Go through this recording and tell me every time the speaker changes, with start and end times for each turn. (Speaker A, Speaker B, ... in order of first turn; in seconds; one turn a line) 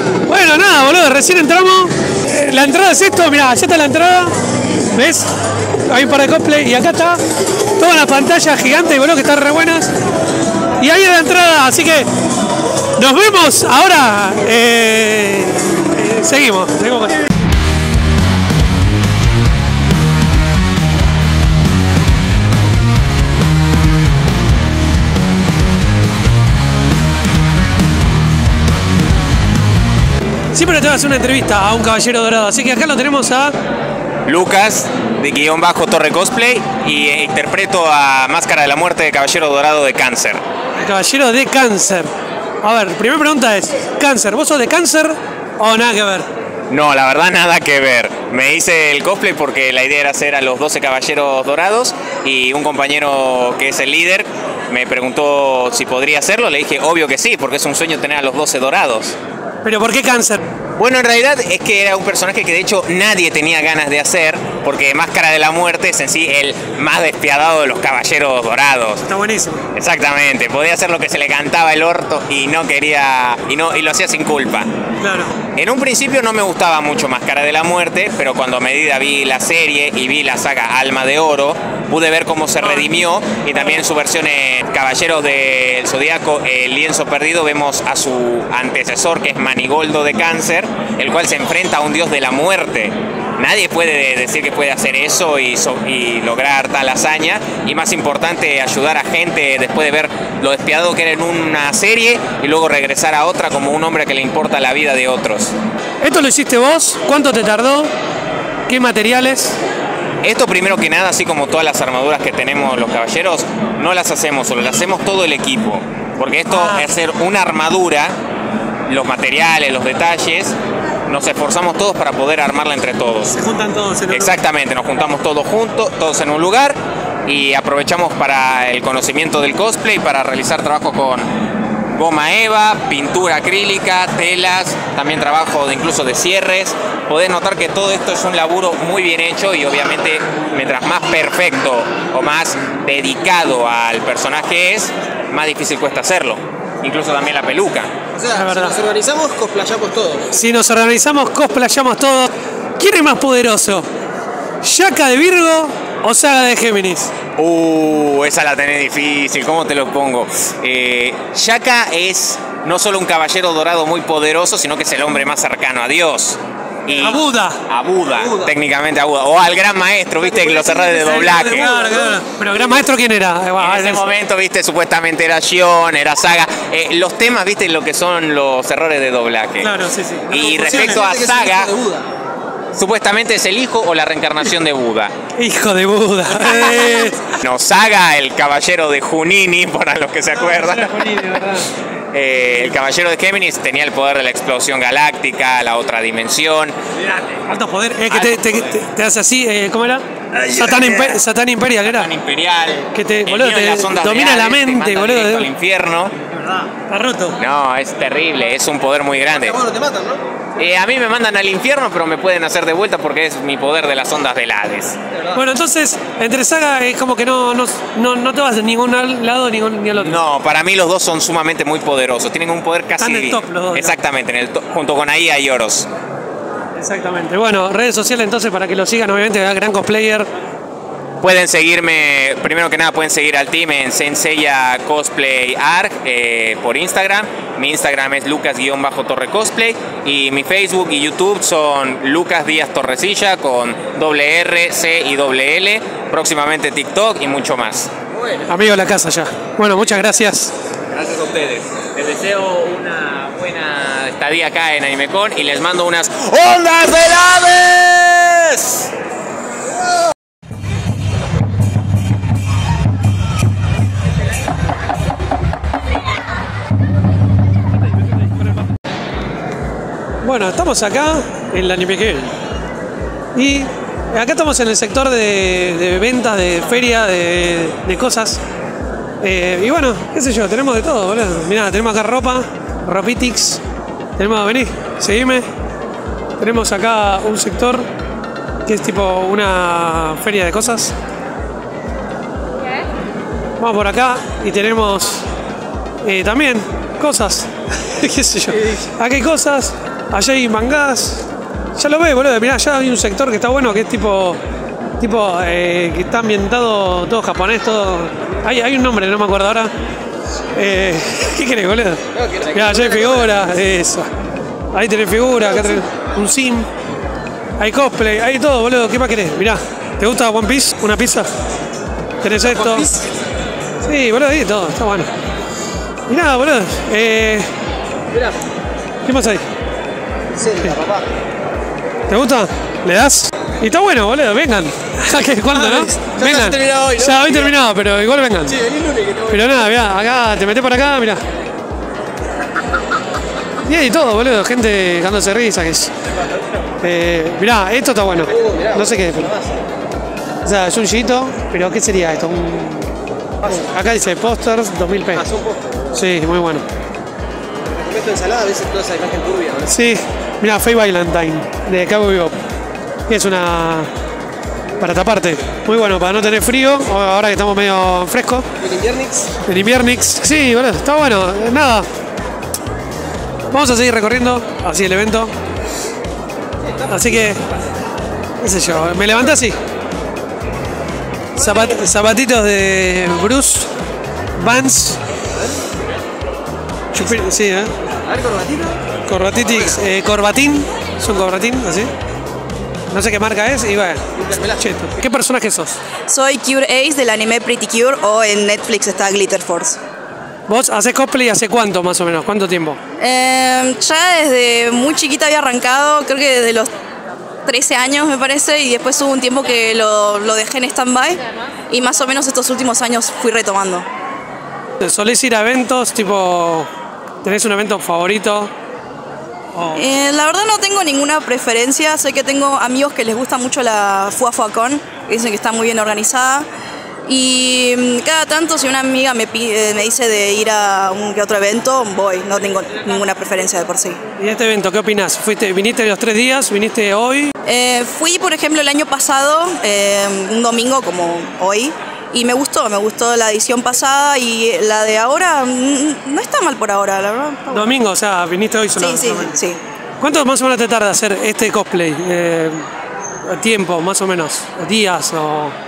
Speaker A: 0.2-4.3
Speaker A: 4.9-5.3
Speaker A: 5.8-7.2
Speaker A: 7.8-9.9
Speaker A: 10.8-12.1
Speaker A: 13.0-17.2
Speaker A: 30.5-33.5
Speaker B: 34.2-40.4
Speaker A: 40.8-42.1
Speaker A: 42.6-46.3
Speaker B: 46.7-59.1
Speaker A: 59.6-60.4
Speaker B: 60.8-69.0
Speaker A: 69.1-69.6
Speaker B: 69.7-74.7
Speaker A: 75.0-75.3
Speaker B: 75.5-105.5
Speaker A: 106.0-107.9
Speaker A: 108.7-109.6
Speaker B: 110.2-118.1
Speaker A: 116.5-116.9
Speaker B: 118.9-120.5
Speaker B: 121.1-123.3
Speaker A: 123.3-124.4
Speaker B: 124.1-131.3
Speaker B: 131.9-147.9
Speaker C: 148.1-150.3
Speaker A: 148.3-148.8
Speaker A: 150.3-153.9
Speaker A: 154.6-157.1
Speaker B: 157.4-171.7
Speaker A: 167.0-167.6
Speaker C: 168.2-168.5
Speaker A: 170.7-174.1
Speaker C: 171.1-172.2
Speaker B: 173.6-179.7
Speaker A: 179.6-180.5
Speaker B: 180.3-181.7
Speaker C: 180.3-182.0
Speaker B: 182.7-185.1
Speaker A: 185.4-187.3
Speaker B: 187.3-191.2
Speaker A: 190.4-191.7
Speaker B: 192.1-197.4
Speaker A: 197.5-202.1
Speaker B: 198.1-198.8
Speaker B: 200.6-200.8
Speaker B: 201.9-206.1
Speaker A: 202.9-205.5
Speaker C: 206.4-206.7
Speaker A: 206.9-207.4
Speaker B: 207.4-209.6
Speaker C: 209.4-210.2
Speaker B: 210.6-215.0
Speaker A: 215.3-220.2
Speaker B: 220.0-225.9
Speaker A: 223.0-223.9
Speaker A: 226.8-230.3
Speaker B: 231.2-247.9
Speaker A: 248.5-250.5
Speaker B: 250.9-258.9
Speaker A: 270.2-272.3
Speaker A: 273.3-278.4
Speaker A: 279.2-283.6
Speaker A: 284.2-285.4
Speaker A: 286.4-287.9
Speaker A: 288.6-290.9
Speaker A: 293.6-295.2
Speaker A: 296.0-301.2
Speaker A: 301.8-304.4
Speaker A: 305.0-309.7
Speaker A: 310.5-312.0
Speaker C: 312.2-313.3
Speaker A: 312.5-314.1
Speaker A: 314.7-316.7
Speaker A: 317.6-321.3
Speaker A: 322.2-322.9
Speaker C: 322.4-323.0
Speaker A: 323.8-325.1
Speaker A: 326.1-327.5
Speaker A: 329.0-329.4
Speaker C: 330.3-331.0
Speaker A: 332.1-338.6
Speaker C: 335.5-337.5
Speaker C: 338.5-339.7
Speaker A: 339.3-341.2
Speaker A: 343.6-345.9
Speaker A: 346.8-349.3
Speaker C: 348.3-349.6
Speaker A: 350.4-352.9
Speaker A: 353.6-355.2
Speaker C: 355.1-355.9
Speaker A: 355.9-356.6
Speaker C: 357.7-359.7
Speaker A: 359.7-362.3
Speaker A: 363.1-363.9
Speaker A: 364.8-368.4
Speaker C: 368.6-369.3
Speaker A: 369.4-371.9
Speaker A: 373.5-375.3
Speaker A: 376.9-377.4
Speaker A: 378.4-379.6
Speaker A: 381.4-383.7
Speaker A: 384.4-385.0
Speaker A: 386.9-387.7
Speaker C: 388.1-388.8
Speaker A: 389.1-391.9
Speaker A: 392.9-394.0
Speaker C: 394.2-394.6
Speaker A: 394.6-395.8
Speaker D: 396.1-399.8
Speaker A: 400.5-402.8
Speaker D: 403.0-406.7
Speaker D: 407.4-413.9
Speaker A: 414.8-416.7
Speaker A: 417.2-418.5
Speaker A: 419.5-419.8
Speaker D: 419.7-426.4
Speaker D: 427.1-434.0
Speaker A: 434.2-437.3
Speaker D: 437.4-447.7
Speaker A: 447.5-449.4
Speaker D: 448.8-449.6
Speaker A: 450.0-452.6
Speaker A: 453.2-455.5